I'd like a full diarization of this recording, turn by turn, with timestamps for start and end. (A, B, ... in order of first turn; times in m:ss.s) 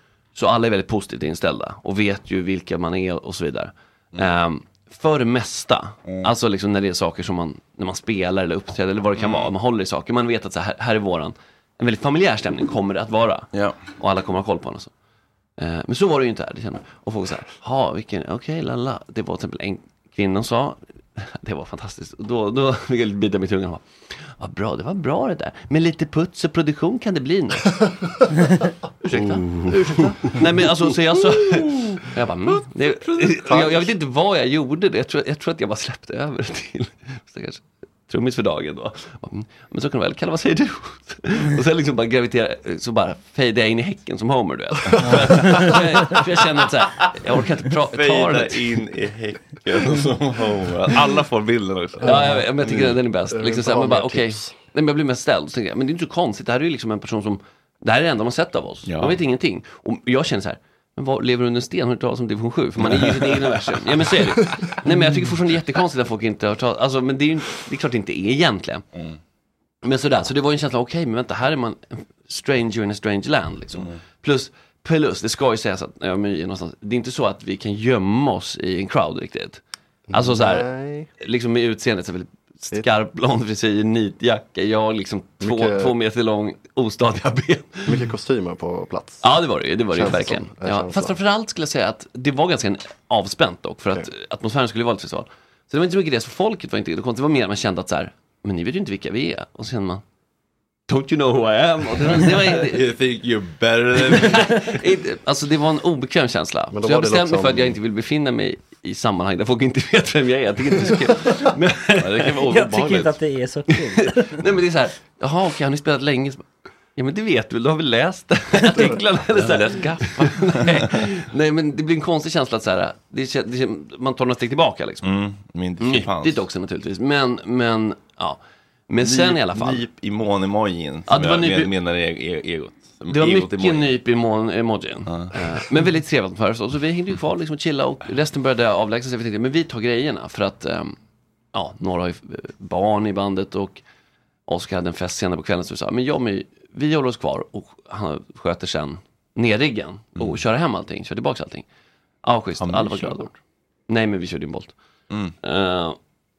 0:00.4-0:14.9 A
0:09.2-0:09.5 B
0:13.5-0:13.8 B
0:15.6-0:27.9 A
0:29.0-0:48.7 A
0:33.0-0:33.4 B
0:33.5-0:33.8 C
0:45.0-0:45.7 D
0:47.9-0:52.9 B
0:52.0-1:08.8 A
0:53.3-0:54.6 C
0:58.9-0:59.2 B
1:02.8-1:03.4 B
1:09.8-1:19.6 A
1:20.1-1:21.1 C
1:20.1-1:20.7 A
1:21.2-1:28.0 A
1:25.4-1:25.9 C
1:27.9-1:29.3 C
1:29.2-1:40.0 A
1:29.9-1:31.1 C
1:40.9-1:42.9 A
1:42.0-1:44.8 B
1:44.0-1:52.7 A
1:46.7-1:47.8 C
1:52.0-1:53.1 B
1:52.5-1:54.4 D
1:54.0-1:56.4 A
1:57.0-2:05.1 A
1:59.3-2:01.1 B
2:05.0-2:06.4 B
2:05.8-2:09.8 A
2:09.0-2:13.9 B
2:11.1-2:11.7 A
2:13.1-2:21.0 A
2:15.1-2:15.4 B
2:21.5-2:23.8 A
2:24.5-2:31.6 A
2:32.2-2:33.3 A
2:32.6-2:33.3 B
2:33.9-2:34.7 A
2:35.4-2:36.0 A